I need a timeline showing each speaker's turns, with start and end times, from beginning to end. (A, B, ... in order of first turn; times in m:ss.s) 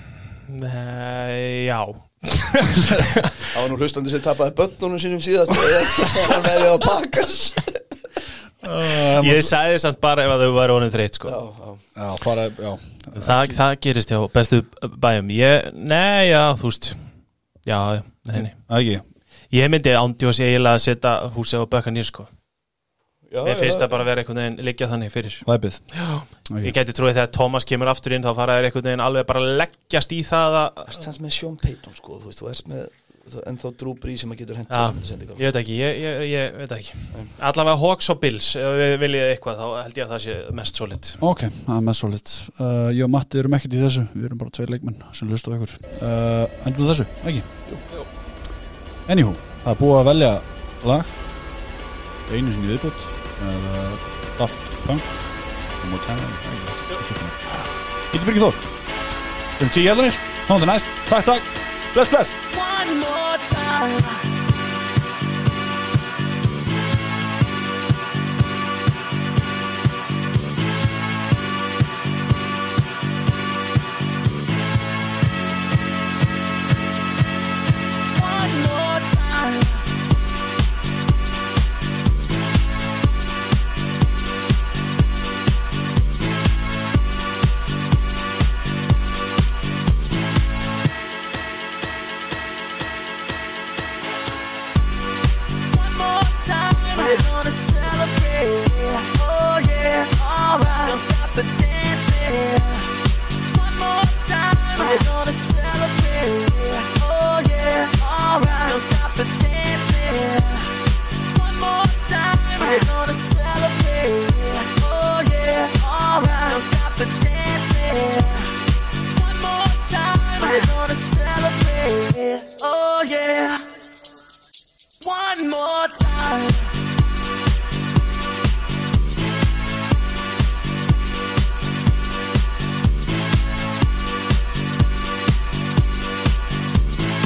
0:00.5-0:03.5 A
0:03.5-0:07.8 B
0:08.6-0:09.5 C
0:09.0-0:11.4 A
0:11.3-0:11.8 B
0:12.0-0:13.6 C
0:13.2-0:17.0 A
0:17.7-0:18.5 A
0:18.4-0:19.0 C
0:19.5-0:22.3 A
0:23.3-0:24.0 B
0:23.4-0:31.0 A
0:25.4-0:25.8 C
0:30.9-0:35.4 B
0:34.7-0:41.2 A
0:41.2-0:47.5 C
0:49.1-0:51.1 C
0:52.3-0:55.1 C
0:55.8-0:57.6 C
0:58.1-0:58.6 C
0:59.6-1:02.4 C
1:02.5-1:04.3 D
1:18.1-1:19.9 D
1:35.7-2:03.6 D
2:05.0-2:06.8 D